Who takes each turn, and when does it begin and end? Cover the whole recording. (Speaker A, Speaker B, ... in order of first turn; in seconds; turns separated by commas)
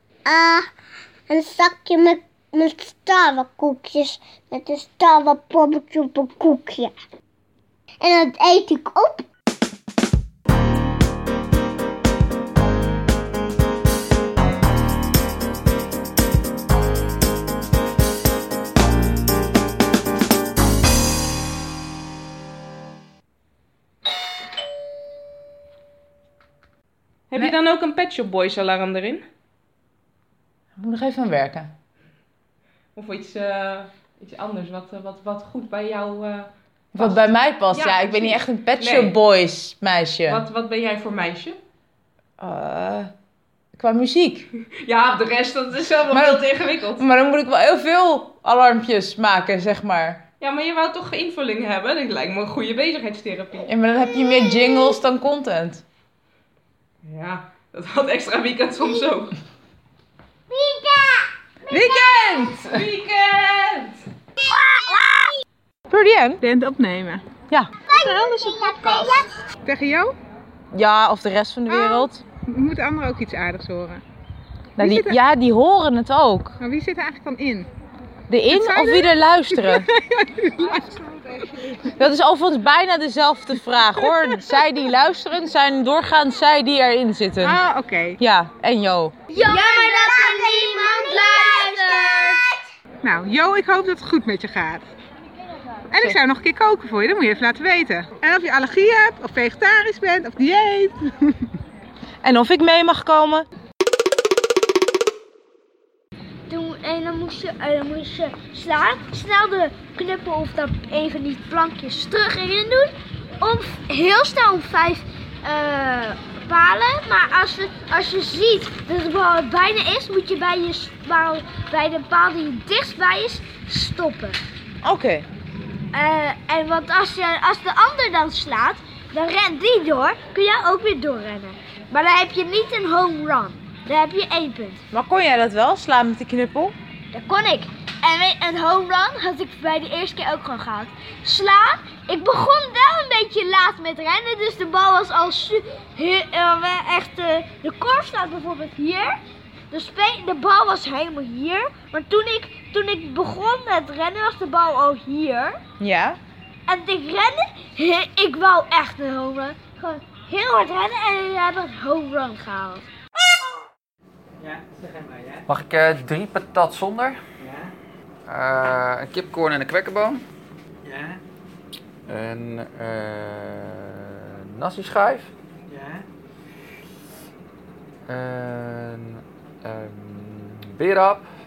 Speaker A: 0.2-0.7, Speaker A: 1.3-6.9, Speaker A: 8.0-9.2, Speaker B: 27.3-29.2, Speaker C: 30.8-31.7, Speaker B: 32.9-39.1, Speaker C: 36.9-40.4, Speaker B: 40.2-41.6, Speaker C: 42.4-43.1, Speaker C: 43.7-44.5, Speaker B: 44.8-47.0, Speaker C: 46.1-50.2, Speaker B: 50.4-53.7, Speaker C: 53.6-55.8, Speaker A: 54.3-54.7, Speaker B: 57.0-59.3, Speaker A: 60.5-62.1, Speaker B: 61.7-64.0, Speaker C: 61.7-62.8, Speaker A: 64.5-65.1, Speaker C: 65.9-66.4, Speaker D: 66.4-67.2, Speaker A: 67.9-69.3, Speaker D: 69.6-70.2, Speaker C: 70.7-72.2, Speaker D: 71.7-74.0, Speaker C: 74.8-76.5, Speaker D: 74.8-75.2, Speaker D: 76.6-77.7, Speaker C: 78.3-79.8, Speaker D: 78.5-80.9, Speaker C: 81.9-87.6, Speaker D: 83.9-84.6, Speaker D: 87.4-88.2, Speaker C: 88.2-89.1, Speaker E: 89.3-92.4, Speaker A: 89.5-92.4, Speaker D: 93.0-94.8, Speaker D: 95.9-101.3, Speaker C: 102.2-103.5, Speaker E: 106.5-124.4, Speaker C: 124.8-125.3, Speaker E: 125.9-134.8, Speaker C: 134.9-136.7, Speaker E: 137.1-149.2, Speaker E: 149.7-155.6, Speaker C: 155.8-156.2, Speaker E: 156.7-162.8, Speaker F: 164.4-165.5, Speaker G: 165.5-167.2, Speaker F: 167.4-167.7, Speaker G: 168.3-170.2, Speaker F: 170.8-171.2, Speaker G: 172.1-175.3, Speaker F: 175.7-176.1, Speaker G: 178.1-181.3